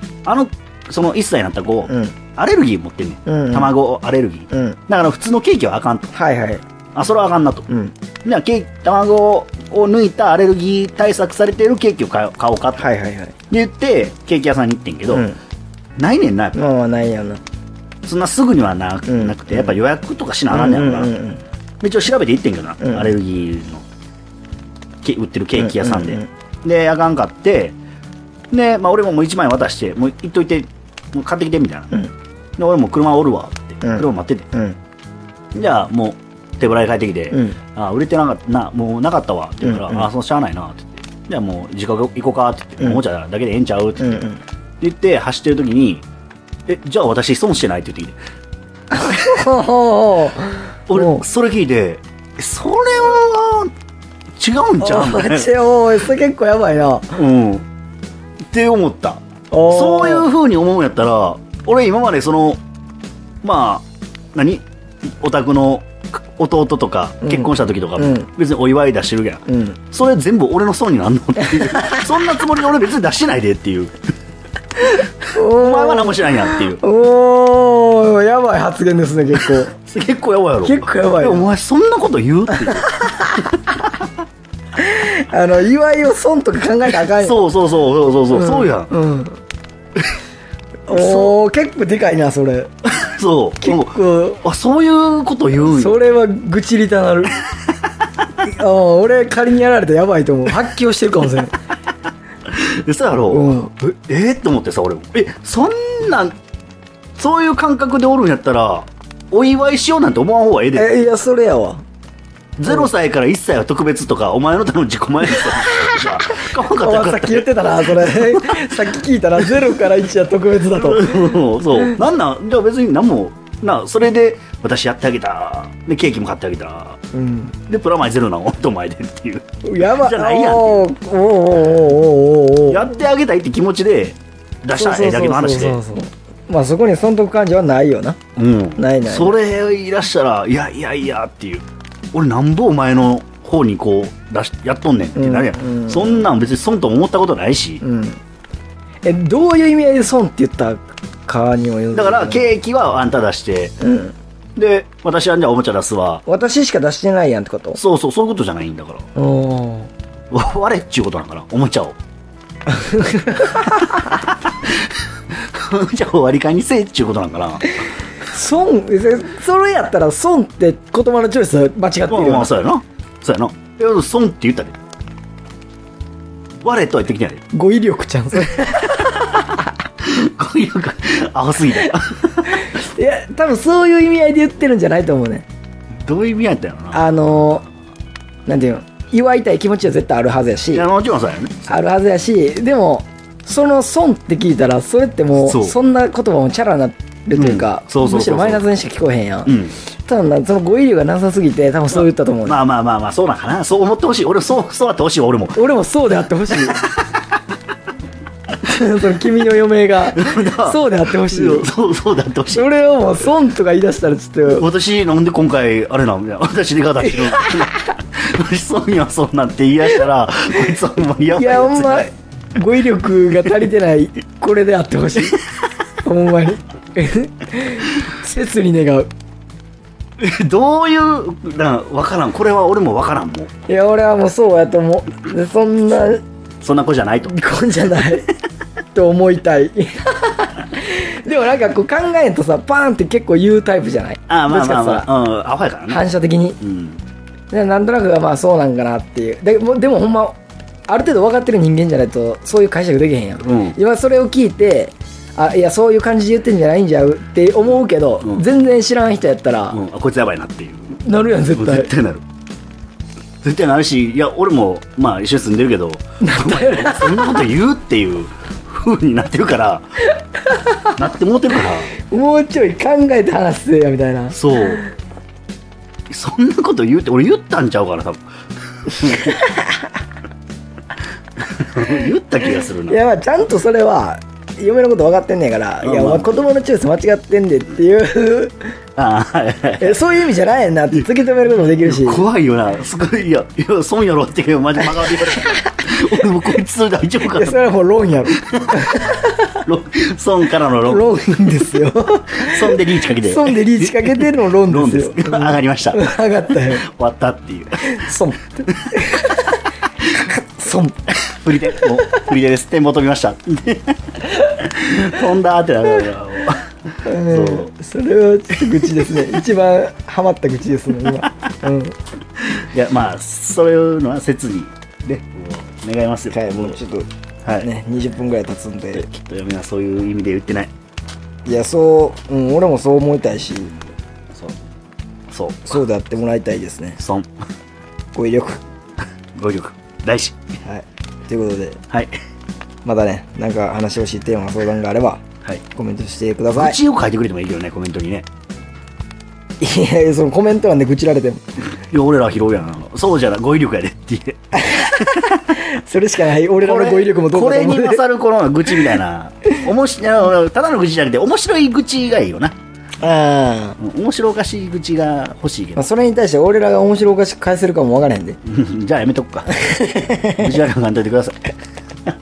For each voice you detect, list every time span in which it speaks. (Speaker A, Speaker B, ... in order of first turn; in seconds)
Speaker A: 0.2-6.1, 7.0-7.7, 8.2-12.9, 13.5-15.3, 16.0-16.6, 18.1-21.1, 21.8-23.8, 25.0-27.8, 28.5-32.0, 32.6-34.5, 35.5-44.3, 44.8-46.0, 46.7-48.2, 50.9-53.7, 54.4-55.5, 57.1-57.6, 58.5-62.6, 63.4-64.6, 65.2-74.0, 75.4-76.8, 79.5-83.1, 87.1-88.9, 90.9-91.3, 92.9-96.0, 102.5-106.4, 107.2-110.9, 112.6-118.9, 119.4-119.8, 120.7-127.0, 127.7-130.9, 132.7-135.8, 138.4-147.8, 151.9-153.7, 154.6-156.2, 157.7-159.0, 160.3-162.0, 164.6-167.7, 172.1-174.8, 176.6-177.4, 178.9-179.4, 180.0-182.7, 186.0-187.1, 190.7-191.7, 195.4-195.8, 197.3-198.6, 199.5-199.8, 201.9-205.6, 206.5-207.2, 210.1-212.7, 214.5-222.1, 230.2-233.5, 236.6-237.3, 244.3-246.1, 246.6-247.0, 253.4-253.8, 259.7-262.2, 263.4-270.0, 271.0-271.9, 274.3-274.9, 276.1-278.3, 278.9-279.4, 281.4-283.0, 285.8-286.4, 289.0-290.0, 291.8-297.6, 298.3-298.9, 299.6-301.8, 302.4-306.0, 306.7-307.8, 311.3-317.7, 318.8-319.1, 322.6-326.8, 328.9-330.7, 335.3-335.8, 337.0-337.3, 339.4-340.4, 346.5-348.3, 351.9-355.4, 356.6-362.6, 363.8-365.8, 368.4-369.7, 370.3-371.5
Speaker B: 1.9-2.1, 3.3-3.7, 4.5-4.8, 6.1-6.6, 7.7-7.9, 12.8-13.3, 15.1-15.4, 16.6-17.4, 19.1-19.8, 20.5-21.4, 22.8-23.1, 25.6-26.3, 33.8-34.8, 37.3-37.6, 39.6-40.1, 44.0-44.4, 48.9-51.2, 54.8-57.2, 59.5-60.3, 67.2-68.3, 69.5-69.8, 71.5-72.0, 75.2-79.7, 80.6-81.5, 82.5-83.5, 84.8-87.4, 88.3-89.4, 90.9-92.7, 93.6-94.4, 95.6-97.4, 98.4-101.6, 103.3-103.7, 110.7-111.8, 115.4-116.1, 116.7-121.9, 127.1-127.6, 129.7-133.0, 134.7-138.2, 138.8-139.4, 145.2-146.3, 147.8-148.2, 149.1-152.5, 153.8-154.1, 156.3-157.8, 159.2-159.9, 162.7-164.0, 168.3-172.5, 177.5-179.1, 182.5-185.5, 186.9-187.7, 188.5-190.9, 191.7-202.6, 205.6-206.8, 208.6-211.7, 212.5-214.7, 217.1-217.9, 221.4-225.4, 226.0-229.1, 233.7-236.2, 237.3-238.3, 238.9-245.1, 245.9-246.6, 247.5-259.8, 261.0-261.9, 266.2-267.5, 270.5-270.9, 272.1-274.9, 279.0-279.9, 282.9-288.6, 289.8-292.2, 295.1-295.8, 297.3-299.4, 300.9-306.9, 307.8-311.0, 311.7-312.2, 317.1-321.9, 326.3-327.1, 327.6-329.1, 331.5-333.7, 335.7-337.0, 338.1-338.6, 340.6-341.8, 342.8-345.2, 345.8-346.8, 349.6-351.4, 354.6-358.0, 363.0-363.8, 365.8-368.4, 369.5-370.5